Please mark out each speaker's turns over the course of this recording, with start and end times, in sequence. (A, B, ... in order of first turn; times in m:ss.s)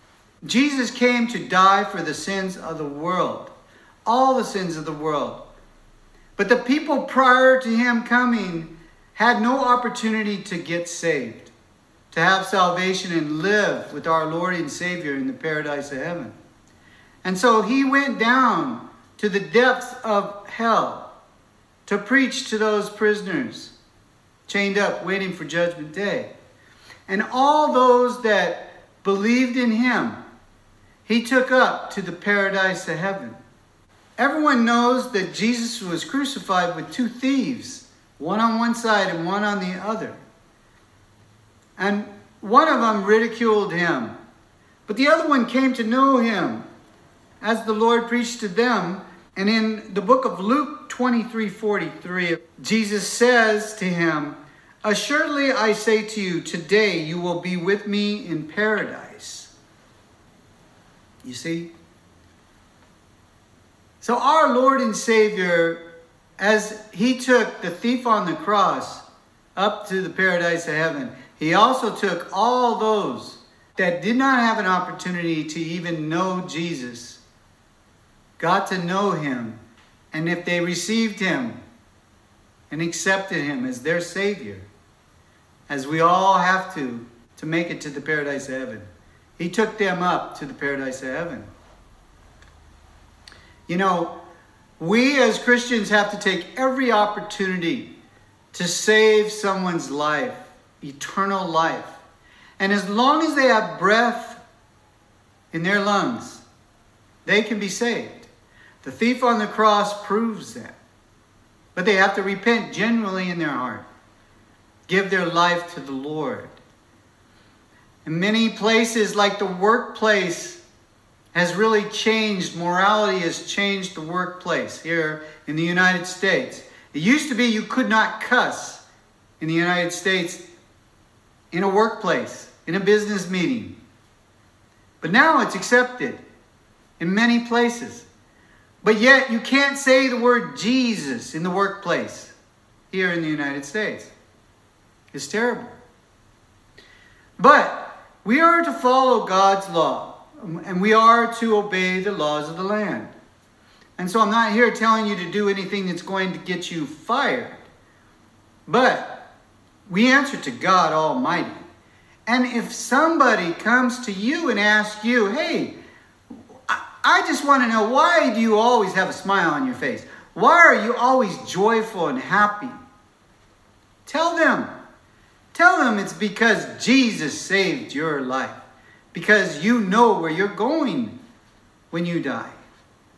0:00.4-0:03.5 A
0:04.1-0:05.4 A
0:06.4-0:11.5 A
0:12.1-0:16.3 A
0:17.2-0:21.1 A
0:21.9-0:23.7 A
0:24.5-0:26.3 A
0:27.1-0:30.2 A
0:31.0-0:33.4 A
0:34.2-0:40.2 A
0:41.8-0:44.2 A
0:44.9-0:46.6 A
0:47.4-0:59.5 A
1:01.2-1:01.7 A
1:04.0-1:05.8 A
1:06.4-1:09.0 A
1:09.6-1:17.2 A
1:18.4-1:19.6 A
1:20.1-1:21.6 A
1:22.7-1:24.7 A
1:25.7-1:28.9 A
1:29.4-1:31.5 A
1:33.7-1:34.2 A
1:34.8-1:38.0 A
1:38.5-1:42.0 A
1:42.6-1:44.4 A
1:45.5-1:46.4 A
1:47.2-1:48.3 A
1:48.8-1:50.8 A
1:51.8-1:53.8 A
1:54.9-1:56.6 A
1:58.0-2:00.6 A
2:01.3-2:08.8 A
2:09.4-2:10.4 A
2:11.5-2:13.8 A
2:15.0-2:16.2 A
2:17.0-2:18.1 A
2:18.8-2:22.3 A
2:22.9-2:24.1 A
2:25.1-2:25.8 A
2:27.4-2:33.1 A
2:34.0-2:37.6 A
2:38.7-2:39.3 A
2:39.9-2:41.7 A
2:42.3-2:45.8 A
2:46.3-2:52.8 A
2:54.1-2:54.7 A
2:55.5-2:58.6 A
2:59.1-3:01.2 A
3:01.9-3:02.6 A